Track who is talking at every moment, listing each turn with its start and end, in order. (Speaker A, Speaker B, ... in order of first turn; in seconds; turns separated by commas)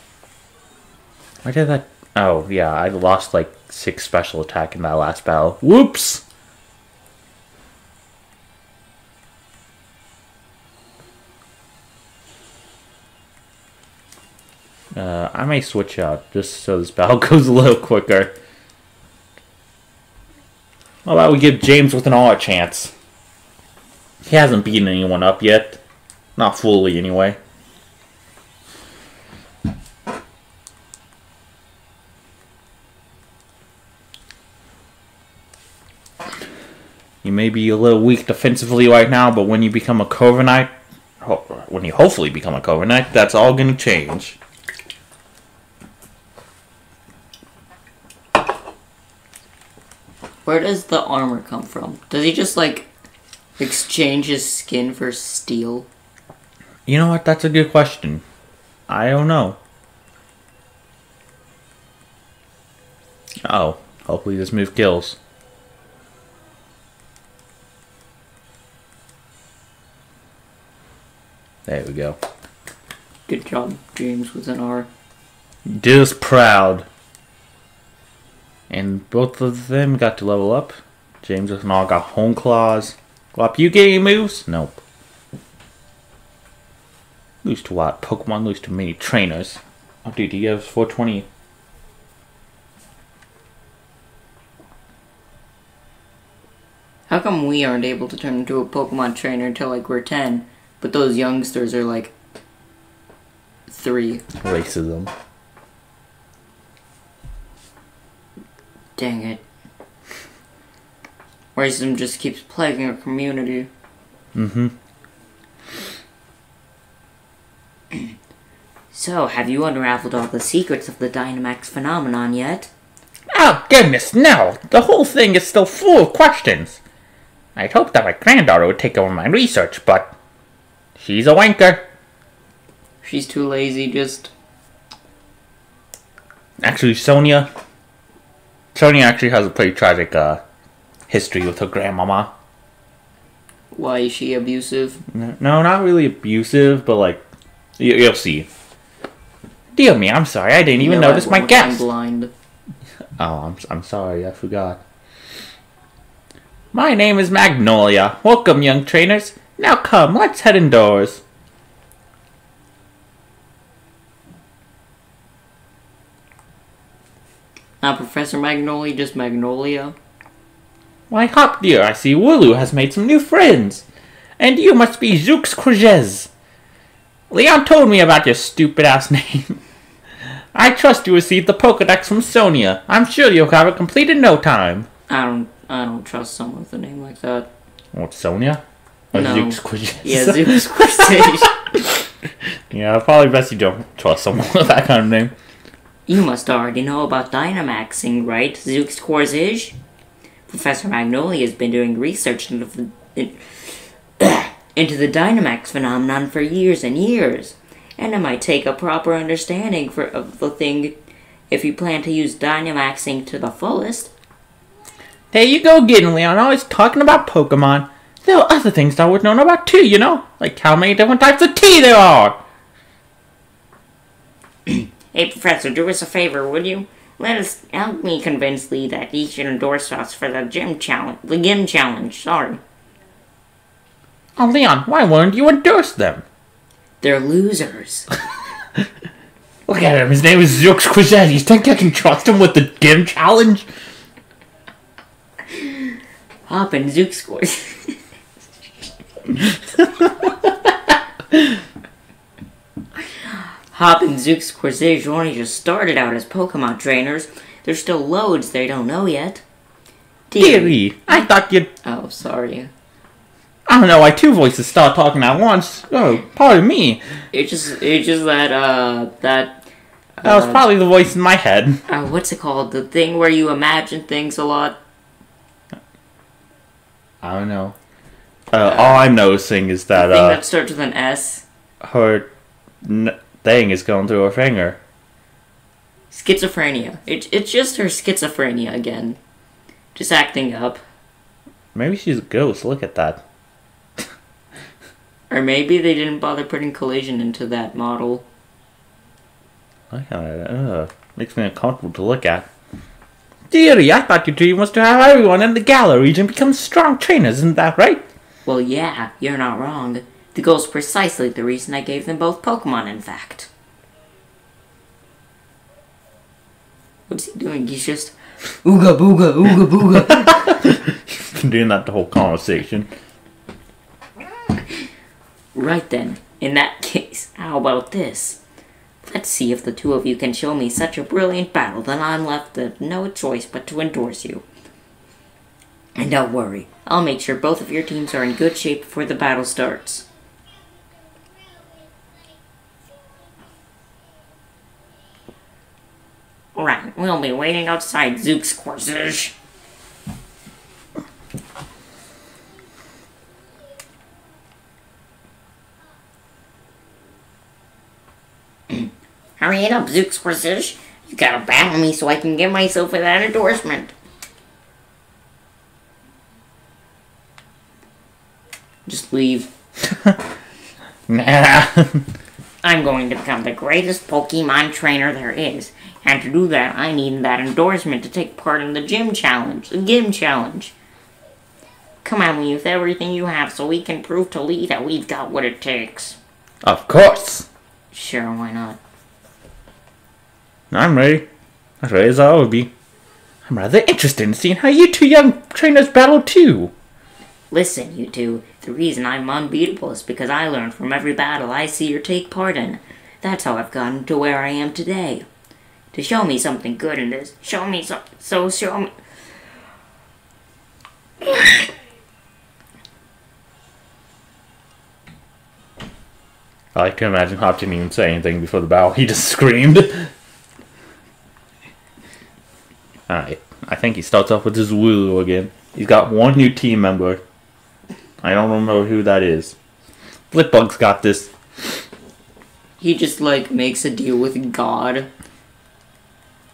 Speaker A: 1.4-6.2, Speaker A: 14.9-18.3, Speaker A: 21.0-22.9, Speaker A: 24.2-25.8, Speaker A: 26.4-27.4, Speaker A: 37.2-44.4, Speaker B: 50.4-52.9, Speaker B: 53.6-55.9, Speaker A: 56.9-58.2, Speaker A: 58.9-59.6, Speaker A: 63.4-65.2, Speaker A: 71.7-72.2, Speaker B: 73.3-74.9, Speaker A: 75.7-76.8, Speaker A: 78.7-84.8, Speaker A: 87.4-91.3, Speaker B: 97.1-102.1, Speaker B: 103.7-104.2, Speaker A: 104.4-105.1, Speaker B: 109.0-109.4, Speaker B: 111.5-113.7, Speaker A: 114.3-114.7, Speaker B: 118.9-122.7, Speaker A: 123.3-126.8, Speaker A: 127.5-130.1, Speaker A: 131.0-131.8, Speaker B: 133.0-134.3, Speaker A: 136.6-137.5, Speaker A: 138.7-140.4, Speaker A: 141.1-142.3, Speaker B: 143.7-145.0, Speaker A: 145.1-147.2, Speaker A: 147.8-148.5, Speaker A: 149.7-151.8, Speaker B: 150.8-152.3, Speaker A: 153.2-154.8, Speaker A: 156.7-161.2, Speaker B: 167.8-169.9, Speaker A: 171.1-173.8, Speaker A: 174.4-176.3, Speaker A: 177.3-179.6, Speaker A: 180.5-184.9, Speaker B: 185.1-187.5, Speaker A: 187.9-188.6, Speaker B: 189.1-191.5, Speaker A: 189.1-192.0, Speaker A: 192.7-195.3, Speaker B: 196.1-199.8, Speaker B: 200.5-210.9, Speaker B: 211.5-214.1, Speaker A: 215.3-222.4, Speaker B: 224.7-232.6, Speaker A: 234.4-236.2, Speaker B: 237.0-238.1, Speaker A: 239.7-243.7, Speaker B: 245.5-245.9, Speaker B: 246.5-248.0, Speaker B: 253.2-259.4, Speaker B: 260.3-261.2, Speaker A: 260.4-261.7, Speaker B: 261.8-262.7, Speaker A: 263.7-267.0, Speaker B: 267.3-269.6, Speaker B: 270.2-270.6, Speaker A: 270.2-271.8, Speaker B: 271.9-274.8, Speaker A: 277.2-277.7, Speaker A: 278.5-280.4, Speaker B: 278.6-279.1, Speaker B: 279.9-281.4, Speaker A: 281.8-282.3, Speaker A: 282.8-284.8, Speaker B: 286.1-289.2, Speaker B: 289.9-290.8, Speaker A: 291.7-293.2, Speaker B: 295.3-298.2, Speaker A: 299.9-302.5, Speaker A: 303.5-308.0, Speaker B: 308.4-313.5, Speaker B: 317.1-320.6, Speaker A: 320.3-322.9, Speaker B: 325.5-328.4, Speaker B: 329.0-334.4, Speaker B: 335.9-340.1, Speaker B: 346.5-349.3, Speaker B: 358.7-363.9, Speaker B: 368.9-369.5, Speaker A: 369.9-370.2, Speaker A: 371.1-372.1, Speaker B: 372.6-380.7, Speaker B: 382.0-386.2, Speaker A: 386.6-387.5, Speaker B: 387.9-388.8, Speaker A: 390.7-391.2, Speaker A: 391.8-392.7, Speaker A: 393.4-396.7, Speaker B: 397.5-405.2, Speaker B: 405.9-408.9, Speaker B: 411.2-411.6, Speaker A: 416.7-420.1, Speaker A: 423.1-427.2, Speaker A: 428.2-429.5, Speaker A: 430.3-431.3, Speaker B: 432.8-435.1